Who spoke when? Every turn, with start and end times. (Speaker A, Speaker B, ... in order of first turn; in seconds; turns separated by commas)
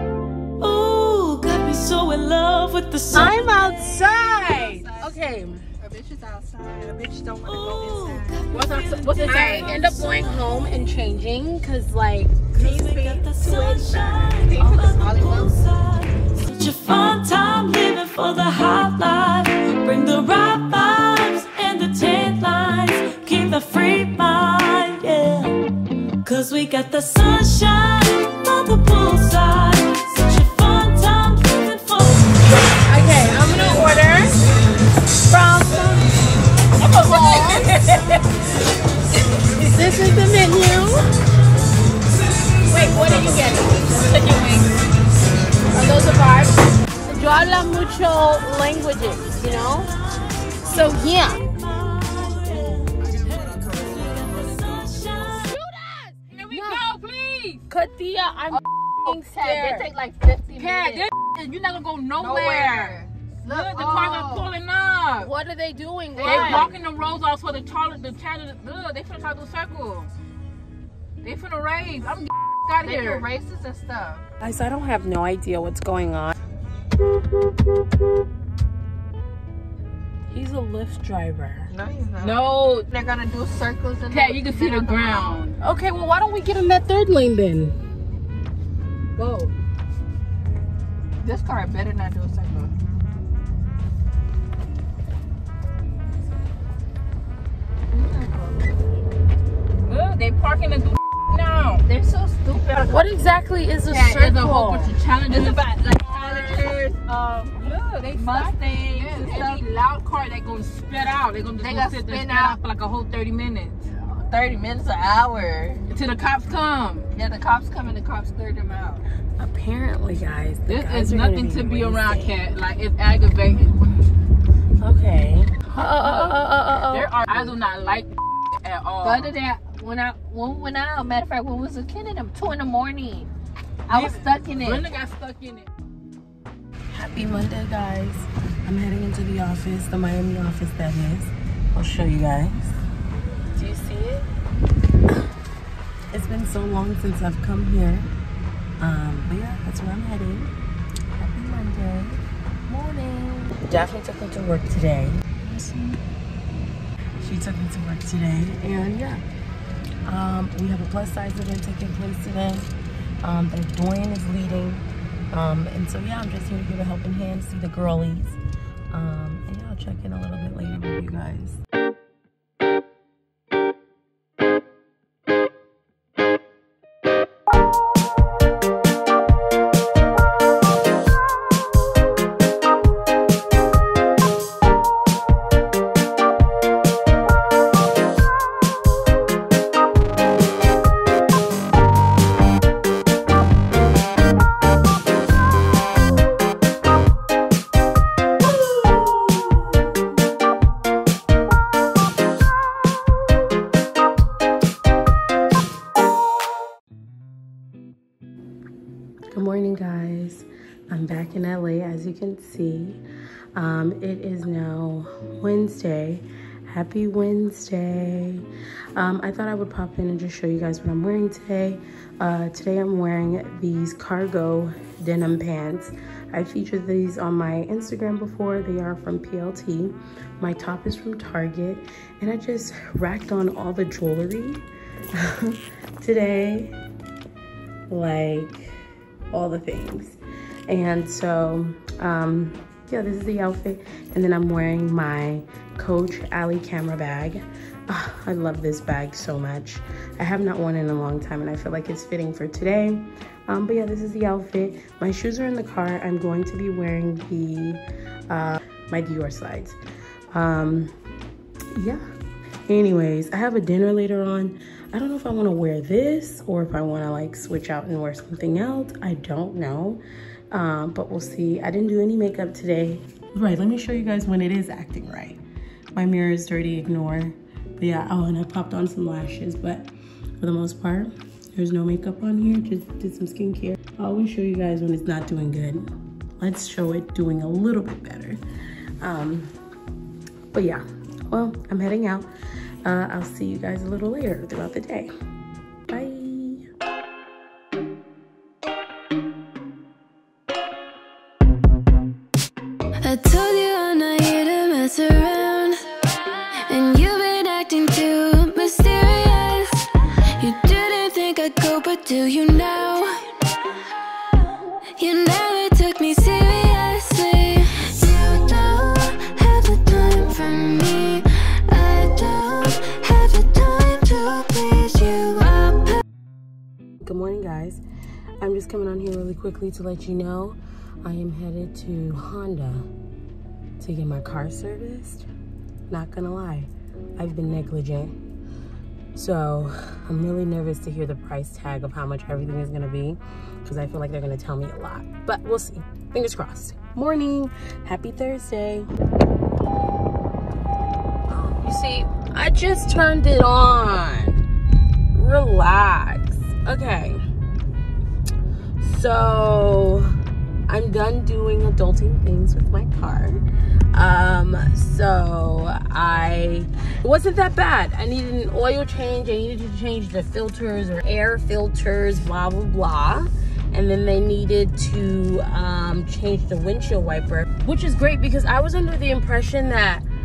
Speaker A: 0.6-4.2, Speaker B: 3.1-5.6, Speaker C: 4.1-5.1, Speaker C: 5.8-8.3, Speaker A: 7.4-10.4, Speaker B: 8.5-12.6, Speaker D: 9.1-9.6, Speaker C: 9.3-9.6, Speaker A: 12.5-25.6, Speaker C: 12.6-15.6, Speaker A: 26.2-32.3, Speaker B: 32.8-34.3, Speaker B: 35.3-36.1, Speaker B: 36.8-38.0, Speaker D: 37.3-37.7, Speaker B: 39.4-41.0, Speaker B: 42.7-44.7, Speaker B: 45.7-49.9, Speaker A: 49.2-49.9, Speaker A: 50.4-55.5, Speaker B: 50.6-51.4, Speaker B: 55.5-56.8, Speaker D: 56.3-57.6, Speaker B: 57.7-59.9, Speaker C: 59.0-61.1, Speaker D: 60.6-65.3, Speaker C: 62.2-64.5, Speaker B: 65.2-66.7, Speaker C: 66.1-66.8, Speaker D: 66.2-70.1, Speaker D: 71.2-73.3, Speaker C: 72.8-74.2, Speaker B: 74.4-76.4, Speaker B: 80.3-81.7, Speaker C: 81.7-85.3, Speaker D: 82.2-82.9, Speaker D: 84.1-85.5, Speaker B: 85.6-87.7, Speaker D: 89.2-89.5, Speaker C: 91.2-92.7, Speaker C: 97.9-98.5, Speaker D: 99.8-101.8, Speaker C: 101.8-103.1, Speaker B: 102.8-104.9, Speaker D: 103.9-106.8, Speaker C: 105.3-109.6, Speaker D: 107.5-113.8, Speaker C: 111.6-112.6, Speaker C: 113.9-115.8, Speaker D: 115.9-117.1, Speaker C: 117.1-119.0, Speaker B: 119.4-122.4, Speaker D: 120.7-123.9, Speaker B: 124.8-127.5, Speaker D: 125.7-129.3, Speaker C: 129.0-133.3, Speaker C: 133.9-134.9, Speaker D: 133.9-135.7, Speaker B: 136.9-142.8, Speaker B: 143.5-144.2, Speaker B: 146.1-148.1, Speaker B: 148.8-150.5, Speaker B: 151.2-156.0, Speaker B: 157.2-159.2, Speaker B: 160.0-162.7, Speaker B: 163.2-168.4, Speaker B: 168.9-171.6, Speaker B: 209.3-213.0, Speaker B: 213.5-218.4, Speaker B: 218.9-236.8, Speaker B: 237.9-238.7, Speaker B: 239.3-259.8, Speaker B: 260.3-260.9, Speaker B: 261.7-262.0, Speaker B: 262.7-270.0, Speaker B: 270.5-275.4, Speaker B: 275.9-279.9, Speaker B: 280.4-285.9, Speaker B: 286.4-288.4, Speaker B: 289.0-289.5, Speaker B: 290.5-292.3, Speaker B: 292.8-295.1, Speaker B: 295.9-296.6, Speaker E: 303.0-309.9, Speaker E: 310.4-313.3, Speaker E: 315.0-326.0, Speaker B: 327.0-327.8, Speaker B: 328.4-332.9, Speaker B: 333.8-335.3, Speaker B: 335.9-338.1, Speaker B: 339.1-348.9, Speaker B: 351.3-354.4, Speaker B: 355.1-357.2, Speaker B: 358.8-360.1, Speaker B: 360.7-363.4, Speaker B: 363.9-380.0